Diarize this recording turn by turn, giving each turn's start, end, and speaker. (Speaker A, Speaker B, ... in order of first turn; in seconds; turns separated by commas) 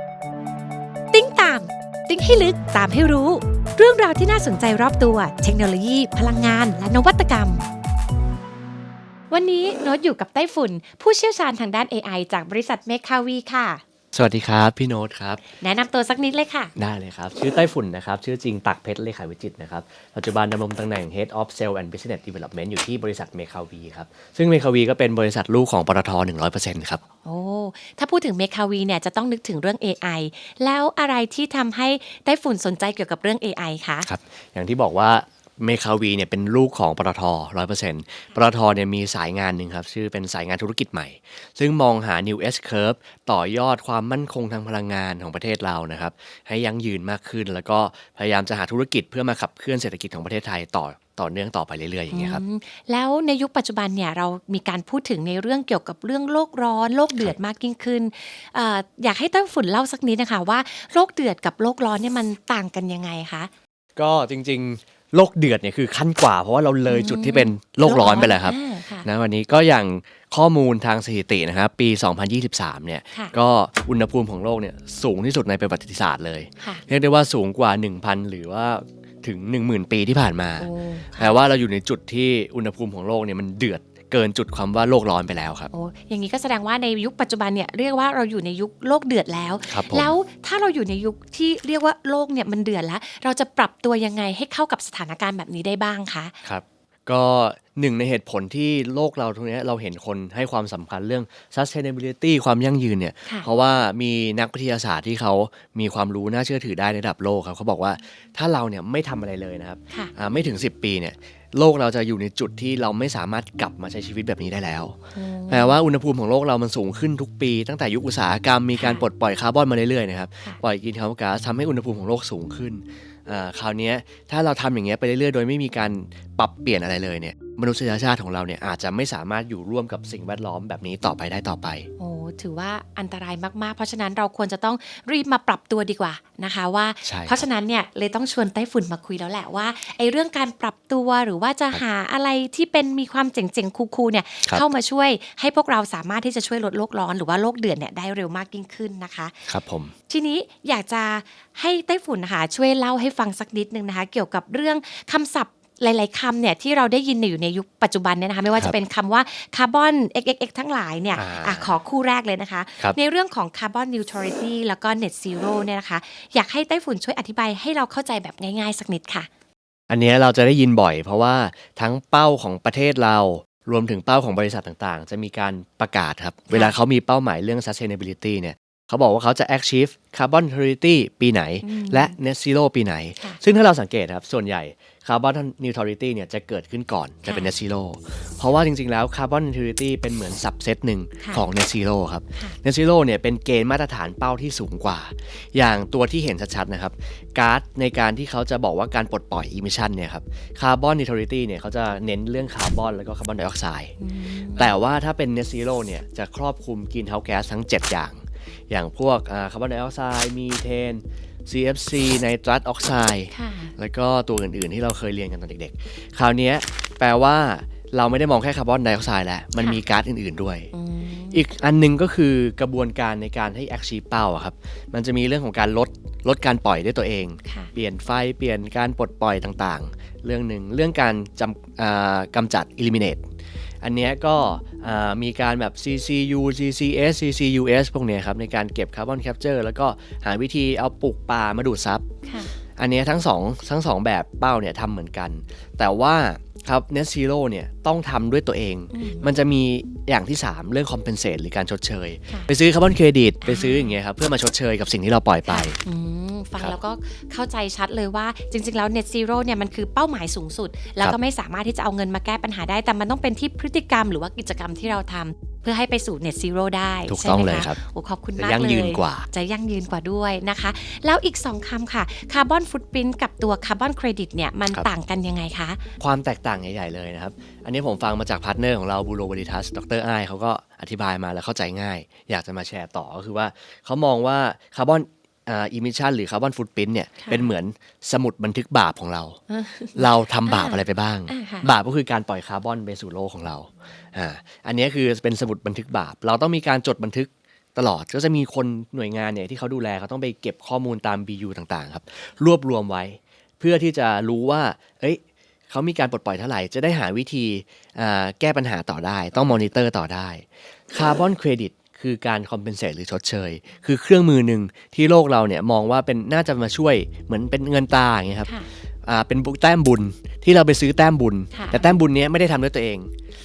Speaker A: 1.1-7.6, Speaker A: 9.3-13.8, Speaker B: 14.1-15.4, Speaker A: 15.6-16.7, Speaker B: 16.8-27.0, Speaker A: 27.2-34.1, Speaker B: 34.0-52.4, Speaker A: 52.1-63.5, Speaker B: 64.0-85.7, Speaker A: 66.9-69.1, Speaker A: 80.6-81.4, Speaker A: 85.7-96.3, Speaker B: 89.7-90.1, Speaker B: 96.4-115.0, Speaker A: 115.2-115.8, Speaker B: 115.5-131.9, Speaker A: 118.8-119.1, Speaker A: 132.0-149.5, Speaker B: 137.1-137.5, Speaker B: 149.5-149.9, Speaker A: 150.1-169.3, Speaker B: 161.2-161.8, Speaker B: 169.9-203.9, Speaker A: 181.6-182.2, Speaker A: 187.2-187.5, Speaker A: 204.0-204.7, Speaker B: 204.5-220.7, Speaker A: 213.3-213.7, Speaker A: 220.7-221.4, Speaker B: 221.3-233.2, Speaker A: 227.4-227.7, Speaker B: 233.8-242.0, Speaker A: 242.2-242.6, Speaker B: 242.8-255.8, Speaker A: 248.9-249.3, Speaker A: 253.4-253.9, Speaker A: 255.4-275.8, Speaker B: 267.1-267.8, Speaker B: 268.4-269.3, Speaker B: 276.0-289.4, Speaker A: 287.2-287.5, Speaker A: 289.5-291.7, Speaker B: 289.9-318.5, Speaker B: 319.0-323.1, Speaker A: 321.5-322.0